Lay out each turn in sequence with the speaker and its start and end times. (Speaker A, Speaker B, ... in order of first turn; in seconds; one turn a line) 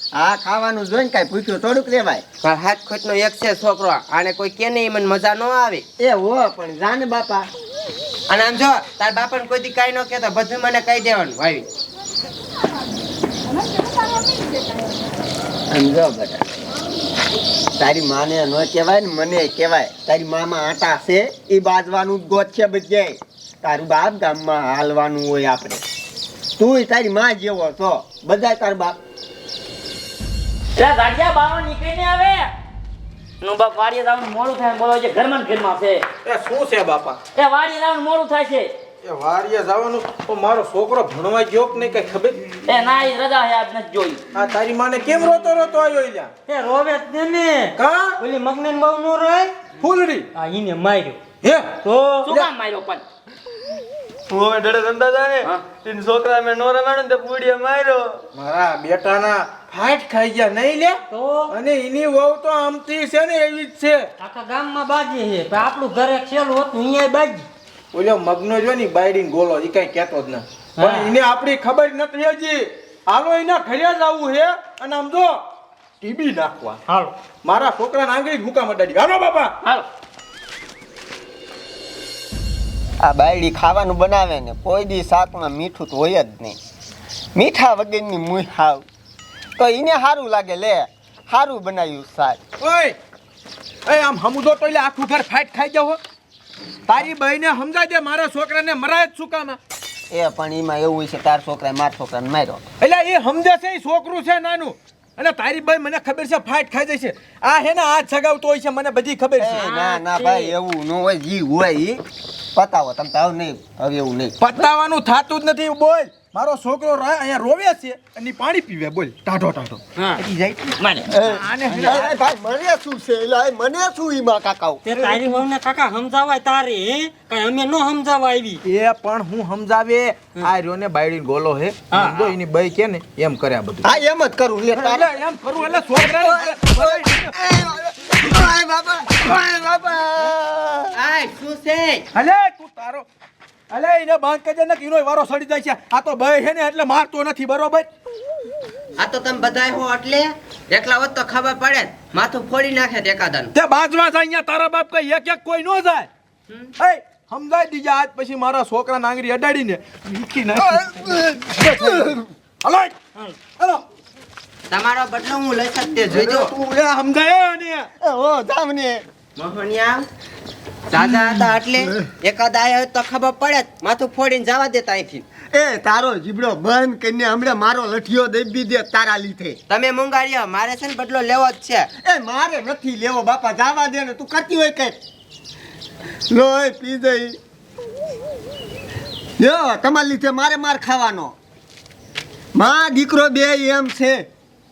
Speaker A: 0.2-2.2
Speaker B: 2.4-5.8
Speaker A: 6.0-7.5
Speaker B: 8.3-11.7
Speaker A: 15.7-16.4
Speaker A: 17.8-25.8
Speaker A: 26.6-29.0
Speaker C: 30.8-32.5
Speaker C: 33.4-36.0
Speaker D: 36.2-37.2
Speaker C: 37.4-38.7
Speaker D: 39.0-42.4
Speaker C: 42.7-44.2
Speaker D: 44.3-46.3
Speaker E: 46.5-49.5
Speaker D: 47.8-48.2
Speaker D: 49.8-50.3
Speaker E: 50.4-51.2
Speaker D: 51.4-52.5
Speaker E: 51.9-52.4
Speaker C: 52.3-53.0
Speaker F: 54.3-58.0
Speaker D: 58.4-64.1
Speaker E: 61.1-61.5
Speaker E: 64.2-67.5
Speaker D: 67.9-75.4
Speaker E: 70.8-71.1
Speaker D: 76.0-76.8
Speaker E: 76.9-77.1
Speaker D: 77.4-79.6
Speaker A: 83.0-86.6
Speaker A: 87.3-88.8
Speaker A: 89.6-92.4
Speaker D: 92.6-93.0
Speaker D: 93.9-96.0
Speaker D: 96.9-99.6
Speaker A: 100.1-102.6
Speaker D: 102.8-109.7
Speaker A: 109.4-112.0
Speaker E: 109.6-110.5
Speaker A: 112.5-114.3
Speaker D: 114.4-119.8
Speaker A: 120.2-124.8
Speaker D: 121.2-122.2
Speaker E: 124.8-128.6
Speaker D: 128.7-133.9
Speaker E: 131.9-132.2
Speaker A: 133.8-135.1
Speaker D: 134.8-137.3
Speaker A: 135.9-140.9
Speaker B: 140.9-142.1
Speaker D: 142.1-143.1
Speaker D: 143.7-147.9
Speaker B: 149.0-153.5
Speaker D: 153.5-156.1
Speaker D: 156.8-163.8
Speaker B: 164.7-166.5
Speaker D: 166.1-167.9
Speaker A: 168.0-169.0
Speaker B: 169.4-170.1
Speaker B: 170.9-175.2
Speaker A: 171.0-172.0
Speaker A: 175.5-179.6
Speaker B: 179.7-181.9
Speaker A: 182.0-185.0
Speaker A: 186.3-187.3
Speaker A: 189.4-191.3
Speaker A: 192.6-194.2